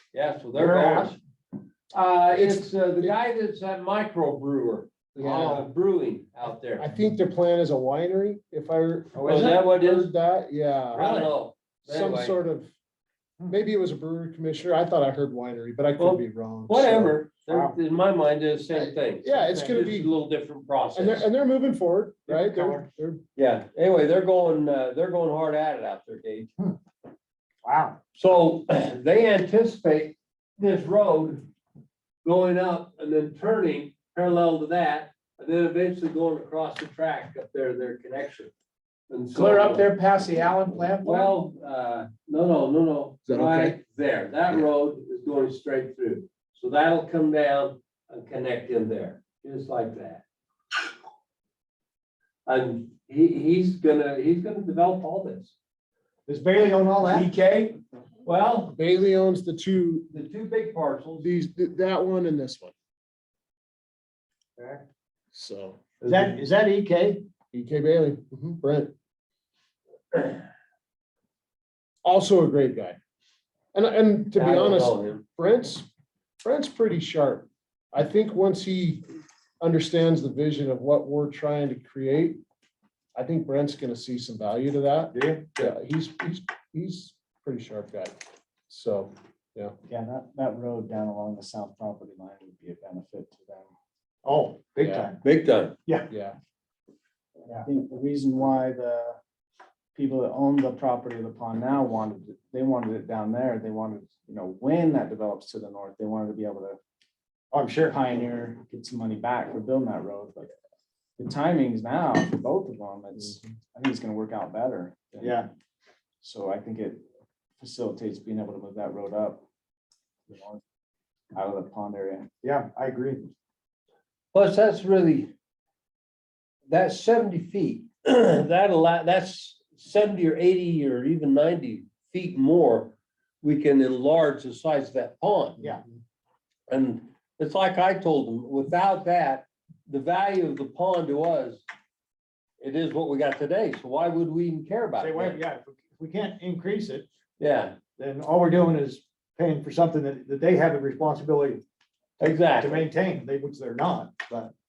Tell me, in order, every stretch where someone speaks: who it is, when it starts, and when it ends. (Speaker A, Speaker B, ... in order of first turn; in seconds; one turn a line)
Speaker A: 0.1-1.2
Speaker B: 0.6-1.1
Speaker A: 1.9-6.8
Speaker C: 2.3-3.1
Speaker C: 5.1-5.7
Speaker C: 6.7-11.3
Speaker B: 9.1-9.5
Speaker A: 9.2-10.1
Speaker A: 10.9-12.3
Speaker C: 11.8-12.7
Speaker C: 13.5-17.2
Speaker A: 16.0-21.3
Speaker B: 17.5-17.8
Speaker C: 19.2-20.1
Speaker B: 19.2-19.8
Speaker C: 20.9-23.2
Speaker B: 22.3-22.9
Speaker A: 23.4-26.5
Speaker B: 27.6-28.0
Speaker A: 28.1-31.4
Speaker A: 32.2-38.5
Speaker A: 39.1-39.9
Speaker B: 39.3-41.3
Speaker A: 41.0-50.2
Speaker C: 43.3-43.8
Speaker A: 52.5-55.5
Speaker B: 56.3-57.7
Speaker A: 58.2-58.8
Speaker C: 58.7-60.1
Speaker A: 60.1-61.3
Speaker C: 61.2-62.7
Speaker B: 64.6-64.8
Speaker C: 65.3-66.3
Speaker B: 66.0-67.2
Speaker C: 67.5-68.9
Speaker C: 72.0-73.0
Speaker C: 73.7-75.8
Speaker A: 74.3-75.2
Speaker C: 76.4-79.0
Speaker C: 79.6-82.4
Speaker C: 83.1-88.2
Speaker B: 85.1-85.5
Speaker C: 88.7-89.7
Speaker D: 89.9-93.7
Speaker B: 94.2-95.2
Speaker C: 94.8-95.1
Speaker A: 95.2-95.8
Speaker C: 96.1-96.3
Speaker D: 97.6-99.2
Speaker D: 99.9-106.8
Speaker B: 107.5-107.9
Speaker D: 107.8-110.5
Speaker D: 111.2-115.4
Speaker B: 115.2-115.5
Speaker D: 116.2-117.0
Speaker D: 117.6-119.4
Speaker D: 120.3-120.6
Speaker D: 121.3-122.3
Speaker B: 122.4-123.3
Speaker A: 124.3-125.3
Speaker A: 126.7-135.6
Speaker A: 136.7-141.6
Speaker A: 142.6-145.4
Speaker B: 145.0-147.1
Speaker A: 147.4-147.7
Speaker B: 148.0-151.6
Speaker A: 152.2-152.9
Speaker B: 152.4-154.5